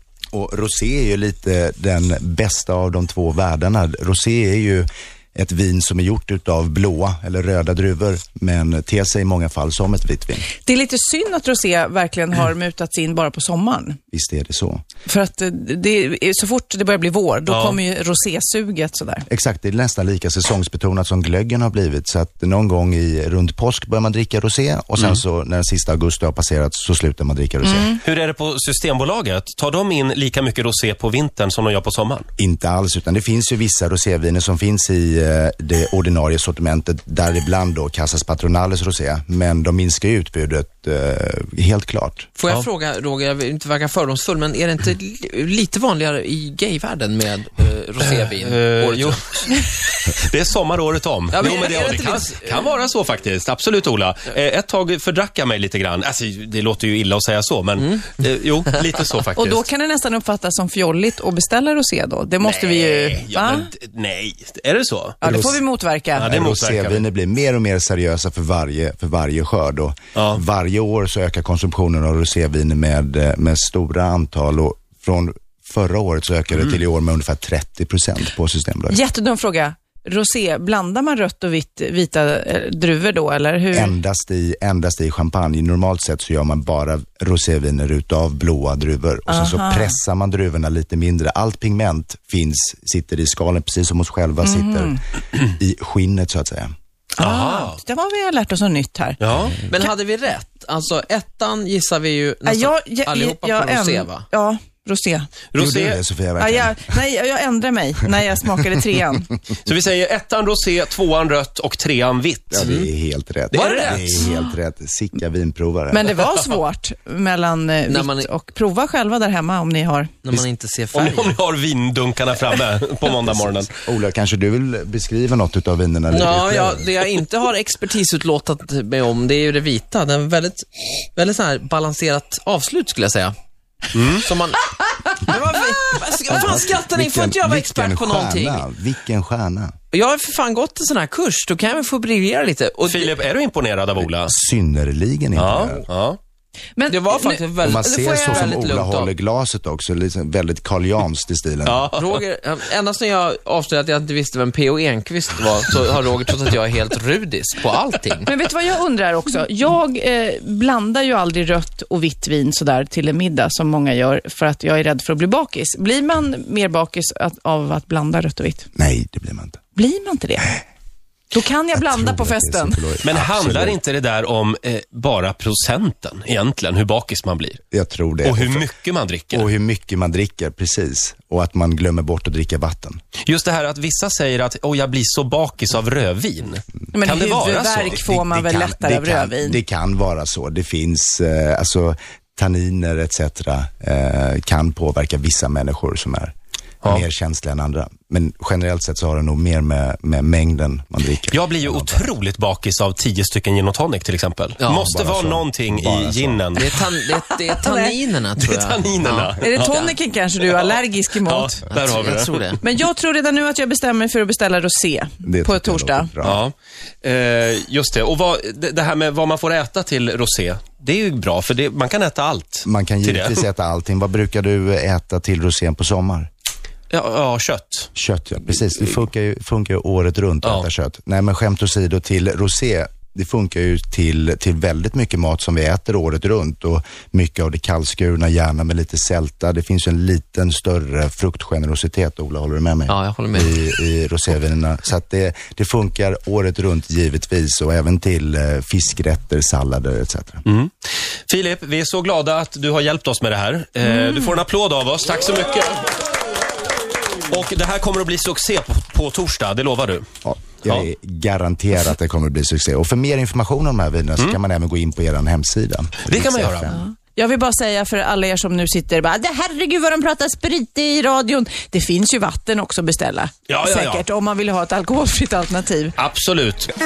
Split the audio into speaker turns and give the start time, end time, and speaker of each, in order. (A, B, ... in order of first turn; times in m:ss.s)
0:00.3-0:10.5 A
0:10.6-0:14.0 B
0:14.1-0:14.8 A
0:15.0-0:19.2 B
0:17.5-0:17.8 C
0:19.3-0:27.9 A
0:27.6-0:28.0 B
0:28.0-0:32.3 C
0:32.4-0:42.3 A
0:42.4-0:49.5 D
0:48.0-0:59.6 C
0:51.3-0:52.5 D
0:59.4-1:03.7 B
1:02.4-1:05.2 C
1:05.2-1:05.6 A
1:05.2-1:06.3 B
1:06.2-1:07.0 C
1:06.2-1:19.0 A
1:10.1-1:10.4 C
1:18.9-1:23.9 B
1:23.7-1:36.7 A
1:29.3-1:30.0 B
1:34.4-1:35.0 B
1:37.2-1:39.2 B
1:37.2-1:37.8 C
1:39.2-1:39.6 C
1:39.6-1:44.2 D
1:42.4-1:45.3 B
1:45.5-1:46.0 C
1:45.6-1:46.8 A
1:46.4-1:49.3 B
1:49.6-1:52.8 C
1:52.5-1:56.2 A
1:52.6-1:52.9 D
1:53.5-1:54.2 D
1:53.6-1:54.5 B
1:55.9-2:00.1 B
1:57.9-1:58.3 D
2:00.2-2:01.4 D
2:00.9-2:03.7 C
2:03.2-2:06.9 A
2:06.1-2:13.3 D
2:13.9-2:14.3 C
2:14.1-2:18.6 D
2:16.3-2:19.7 A
2:19.9-2:23.2 D
2:22.8-2:24.3 C
2:24.1-2:25.8 A
2:25.3-2:26.2 C
2:26.8-2:27.5 B
2:26.9-2:29.1 D
2:27.6-2:31.9 A
2:31.6-2:32.2 C
2:31.9-2:38.3 D
2:38.2-2:48.7 B
2:48.7-2:49.6 A
2:49.7-2:50.6 B
2:51.3-2:52.8 B
2:51.7-2:53.8 A
2:53.0-2:57.6 C
2:57.7-2:58.7 A
2:58.2-2:59.5 C
2:59.3-3:03.0 A
3:03.2-3:08.0 C
3:06.9-3:09.6 B
3:07.8-3:22.1 A
3:21.3-3:26.7 C
3:24.6-3:24.9 D
3:24.8-3:26.4 A
3:26.6-3:29.9 D
3:27.6-3:28.0 B
3:28.4-3:29.8 C
3:29.4-3:31.6 B
3:30.4-3:32.6 C
3:31.7-3:32.6 D
3:32.6-3:36.1 B
3:35.2-3:36.4 A
3:36.2-3:43.4 C
3:42.6-3:46.3 A
3:46.9-3:47.9 C
3:47.9-4:10.4 A
4:02.9-4:03.6 D
4:10.4-4:15.9 C
4:17.3-4:20.0 C
4:20.2-4:26.8 A
4:26.1-4:26.7 C
4:26.7-4:36.0 B
4:33.5-4:34.0 C
4:36.0-4:36.7 C